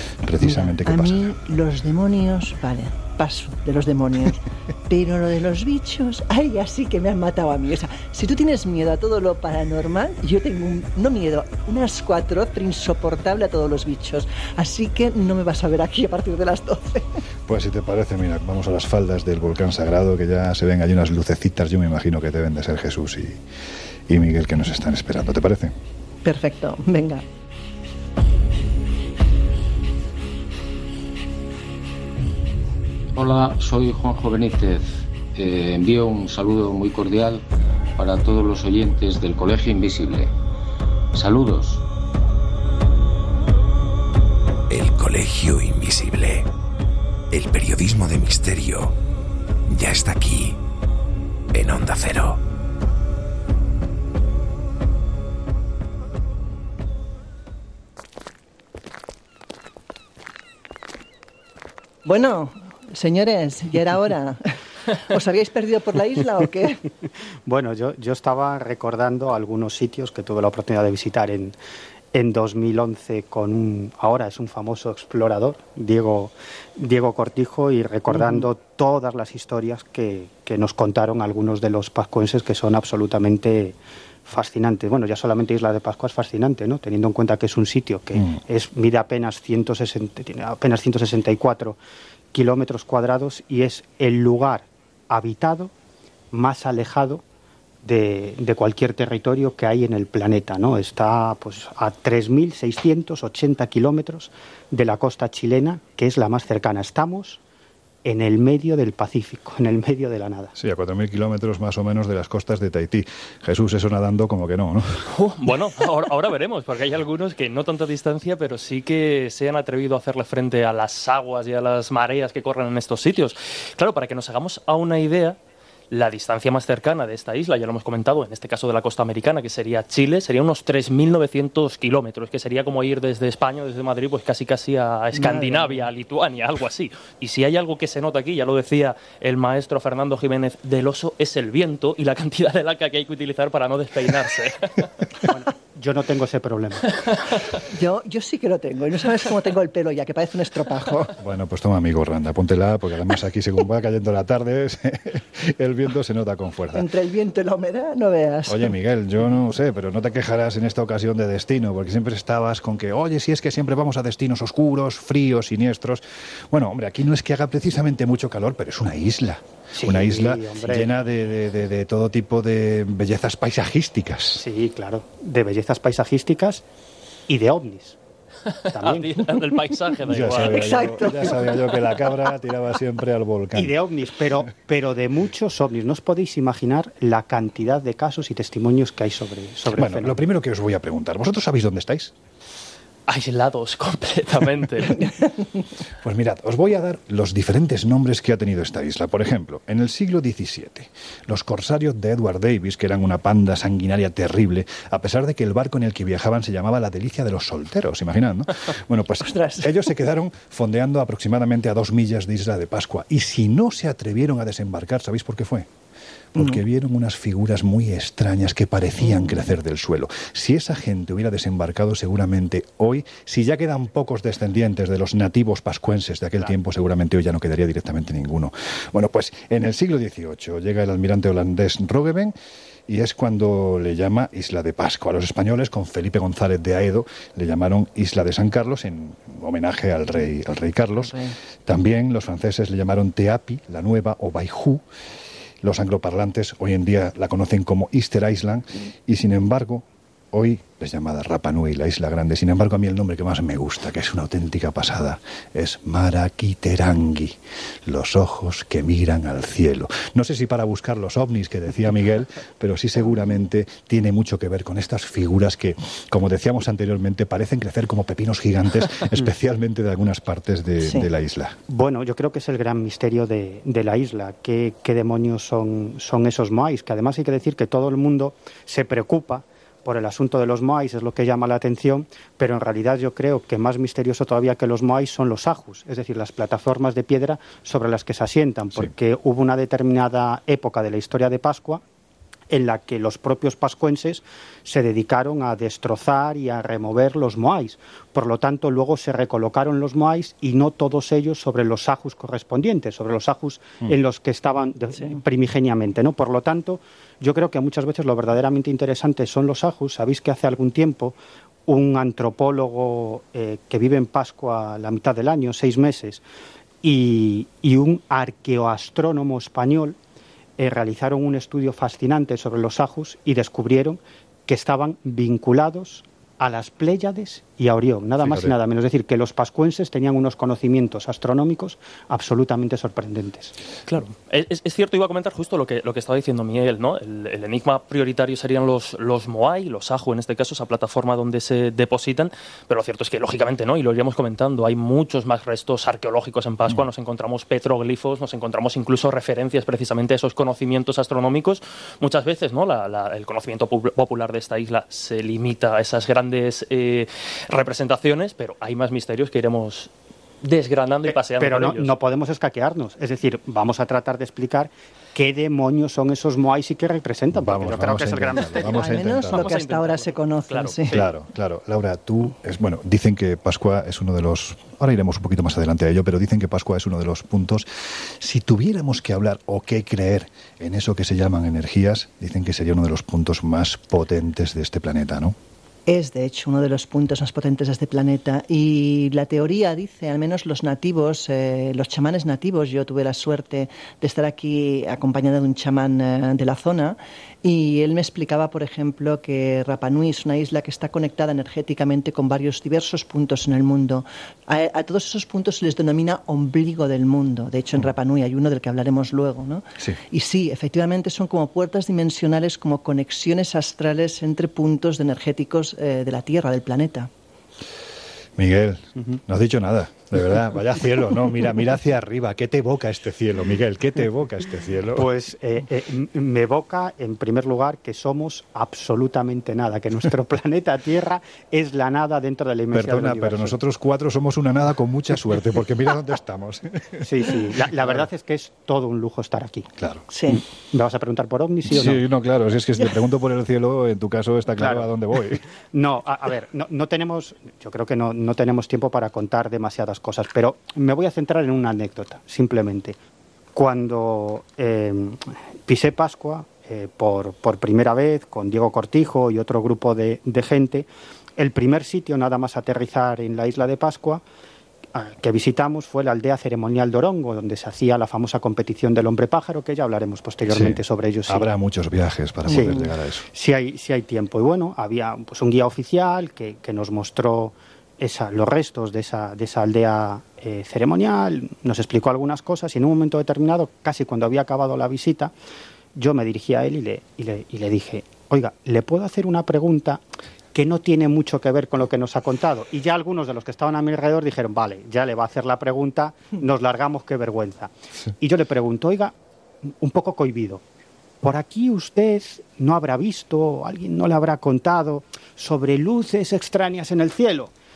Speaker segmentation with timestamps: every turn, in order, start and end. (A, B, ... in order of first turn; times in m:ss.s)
0:00.2-0:01.3 A
0:00.4-0:17.2 B
0:17.5-0:23.4 A
0:24.1-0:25.7 A
0:26.2-0:27.2 B
0:33.1-0:37.4 C
0:38.0-0:40.3 C
0:41.1-0:41.8 C
0:44.7-0:46.4 D
0:47.3-0:48.9 D
0:49.7-0:50.6 D
0:51.5-0:52.4 D
1:02.0-1:04.5 B
1:05.1-1:06.8 B
1:07.4-1:11.6 E
1:12.1-1:31.8 E
1:28.1-1:28.4 A
1:32.3-1:35.7 E
1:36.3-1:37.2 E
1:37.8-1:47.4 E
1:48.0-1:50.5 E
1:50.6-1:55.0 A
1:55.1-2:05.4 F
2:05.9-2:24.9 F
2:15.1-2:15.9 B
2:25.2-2:27.0 E
2:27.7-2:31.1 B
2:31.2-2:36.9 A
2:36.7-2:38.7 B
2:38.5-2:54.4 A
2:49.8-2:50.9 E
2:54.4-2:56.6 E
2:57.3-2:58.0 E
2:58.7-2:59.3 E
2:58.8-3:01.1 F
3:00.1-3:03.8 A
3:00.5-3:01.6 B
3:03.5-3:10.2 E
3:09.7-3:12.1 A
3:13.1-3:15.0 F
3:16.0-3:35.7 A
3:29.2-3:29.8 B
3:36.3-3:52.3 A
3:39.0-3:39.4 B
3:52.9-4:04.8 A
4:01.0-4:01.3 B
4:05.6-4:31.6 A
4:30.8-4:31.1 B
4:31.7-4:51.8 E
4:52.5-5:11.2 E
5:11.7-5:16.2 E
5:16.8-5:20.0 E
5:20.6-5:33.5 E
5:28.2-5:28.5 A
5:33.9-5:59.9 F
6:00.4-6:01.9 F
6:01.1-6:08.6 E
6:07.3-6:09.5 A
6:08.5-6:10.7 F
6:08.7-6:11.0 B
6:10.9-6:25.4 A
6:25.8-6:57.1 B
6:58.4-7:05.1 A
7:05.0-7:13.5 E
7:12.7-7:18.1 A
7:17.0-7:19.7 E
7:19.8-7:20.0 A
7:20.1-7:20.4 B
7:20.7-7:22.0 E
7:21.7-7:25.4 A
7:24.6-7:24.9 E
7:25.7-7:33.0 E
7:33.5-7:44.2 E
7:44.9-7:51.5 E
7:50.4-7:53.2 A
7:52.4-7:52.9 B
7:52.5-8:05.3 E
8:05.9-8:19.1 E
8:19.6-8:20.6 E
8:21.2-8:27.5 E